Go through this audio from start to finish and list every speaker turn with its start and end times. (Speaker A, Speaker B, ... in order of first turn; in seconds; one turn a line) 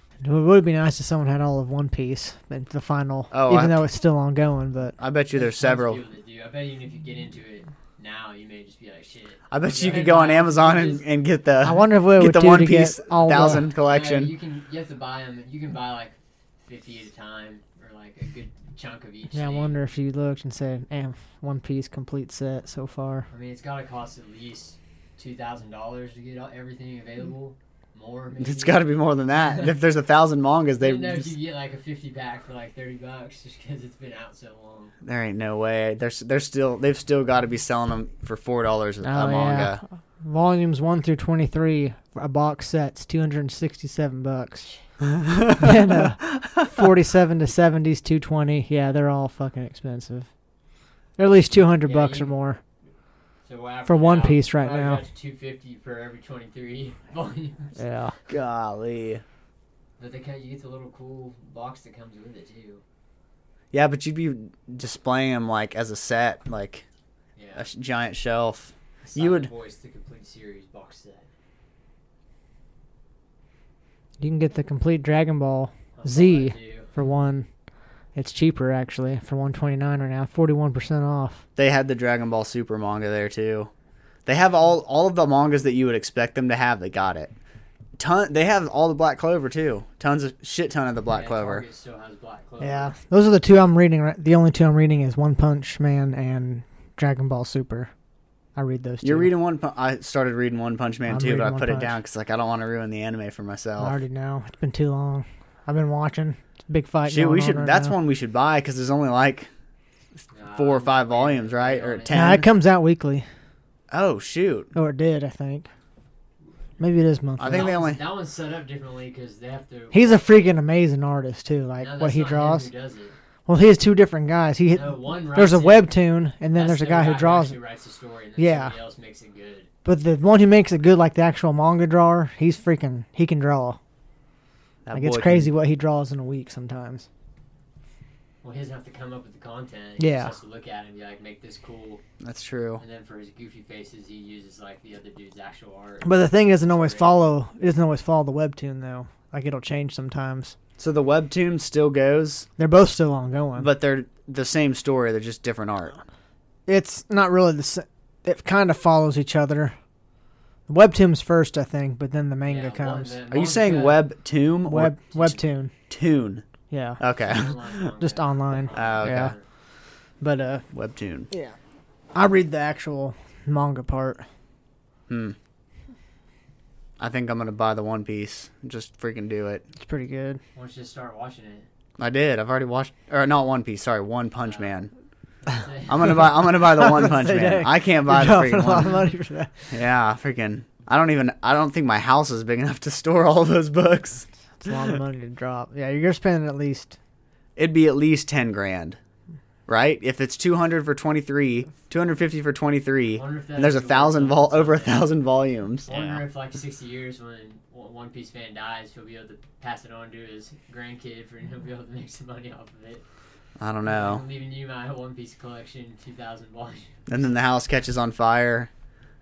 Speaker A: 0.2-5.0
Speaker B: 3.3-3.8
Speaker B: 5.0-6.0
Speaker C: 5.4-11.1
Speaker B: 9.5-14.3
Speaker A: 11.6-13.7
Speaker C: 13.4-19.8
Speaker A: 19.3-23.3
Speaker C: 23.3-28.9
Speaker B: 28.4-31.3
Speaker C: 30.8-35.0
Speaker B: 35.0-39.8
Speaker A: 39.0-44.7
Speaker B: 45.2-45.7
Speaker A: 45.6-50.3
Speaker A: 51.2-52.6
Speaker C: 51.8-52.3
Speaker C: 53.5-57.8
Speaker A: 53.9-55.0
Speaker A: 57.8-58.2
Speaker B: 58.3-59.2
Speaker C: 60.0-62.8
Speaker B: 63.7-66.8
Speaker C: 67.4-67.7
Speaker B: 67.6-69.5
Speaker C: 69.0-71.3
Speaker A: 74.2-77.5
Speaker C: 76.0-76.9
Speaker A: 78.2-81.4
Speaker B: 81.6-83.7
Speaker B: 84.3-87.3
Speaker B: 88.0-91.7
Speaker C: 91.1-92.9
Speaker A: 92.6-97.9
Speaker A: 98.6-99.3
Speaker B: 99.0-104.0
Speaker A: 101.1-102.0
Speaker A: 103.8-108.0
Speaker B: 107.1-109.5
Speaker C: 110.3-112.4
Speaker B: 110.5-112.5
Speaker A: 112.1-113.3
Speaker B: 113.9-114.7
Speaker A: 114.7-115.7
Speaker A: 116.8-117.7
Speaker B: 117.4-118.0
Speaker C: 117.5-120.3
Speaker A: 119.9-122.7
Speaker C: 121.8-123.2
Speaker A: 123.5-127.6
Speaker C: 124.7-125.9
Speaker C: 126.5-129.7
Speaker A: 128.4-128.8
Speaker A: 129.8-133.8
Speaker B: 134.8-135.5
Speaker A: 134.9-137.1
Speaker C: 138.4-142.0
Speaker A: 140.0-140.3
Speaker B: 142.2-142.8
Speaker C: 142.8-147.2
Speaker A: 146.0-150.5
Speaker B: 150.8-152.5
Speaker A: 152.6-153.7
Speaker B: 153.6-156.0
Speaker A: 156.7-159.8
Speaker A: 160.7-163.2
Speaker C: 162.5-164.0
Speaker B: 163.3-166.4
Speaker A: 164.7-165.7
Speaker A: 166.7-167.0
Speaker B: 167.0-167.7
Speaker C: 167.2-169.4
Speaker A: 168.0-169.3
Speaker B: 168.7-169.3
Speaker A: 170.2-170.7
Speaker B: 170.7-171.3
Speaker A: 172.1-174.2
Speaker B: 175.1-175.4
Speaker B: 177.0-179.6
Speaker A: 179.8-180.4
Speaker C: 180.6-181.7
Speaker B: 182.0-184.9
Speaker C: 184.4-184.7
Speaker C: 185.4-186.2
Speaker B: 185.9-189.1
Speaker A: 186.5-189.7
Speaker B: 189.7-195.0
Speaker A: 194.6-197.0
Speaker B: 197.6-199.0
Speaker B: 199.7-206.2
Speaker C: 203.2-205.1
Speaker C: 205.9-213.0
Speaker B: 213.6-214.2
Speaker C: 213.8-217.0
Speaker B: 217.1-218.7